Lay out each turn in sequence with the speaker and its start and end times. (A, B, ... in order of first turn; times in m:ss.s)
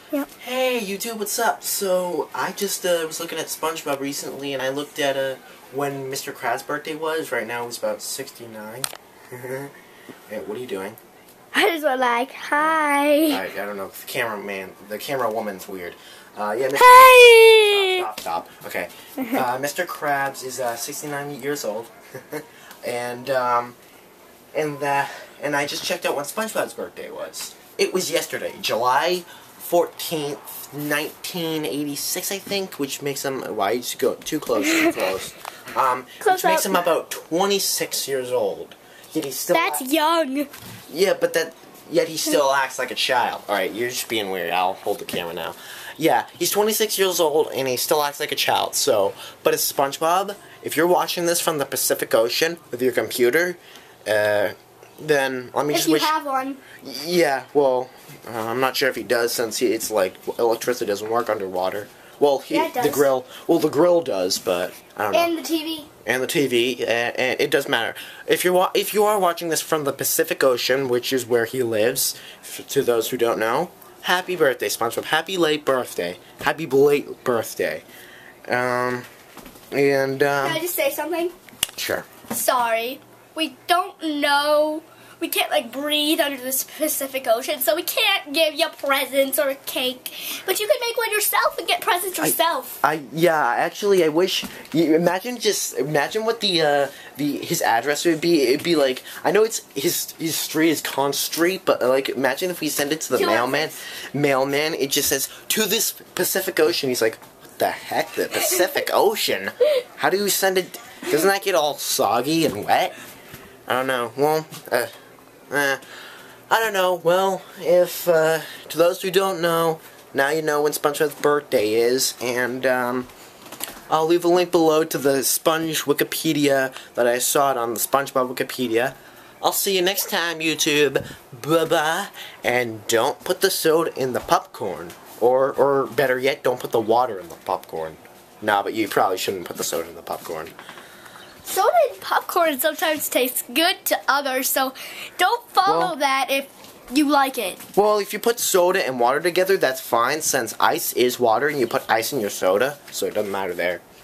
0:00.3-0:09.7 A
0:10.3-0:11.0 A
0:11.5-0:13.4 B
0:12.6-0:23.8 A
0:16.8-0:18.0 B
0:24.5-0:39.8 A
0:34.6-0:35.0 B
0:36.2-0:36.8 B
0:39.5-0:40.5 B
0:40.9-0:56.1 A
0:55.7-0:56.6 B
0:56.8-1:05.3 A
1:02.5-1:03.1 B
1:05.1-1:05.9 B
1:06.0-1:17.8 A
1:18.5-1:19.1 A
1:19.7-1:20.6 A
1:20.4-1:21.3 B
1:21.8-1:22.1 A
1:22.3-1:32.8 B
1:32.2-1:52.9 A
1:43.1-1:43.8 B
1:53.7-1:54.9 A
1:55.5-1:55.8 A
1:56.5-2:03.1 A
2:03.9-2:20.5 A
2:21.4-2:27.6 B
2:25.6-2:25.9 A
2:27.8-2:33.8 A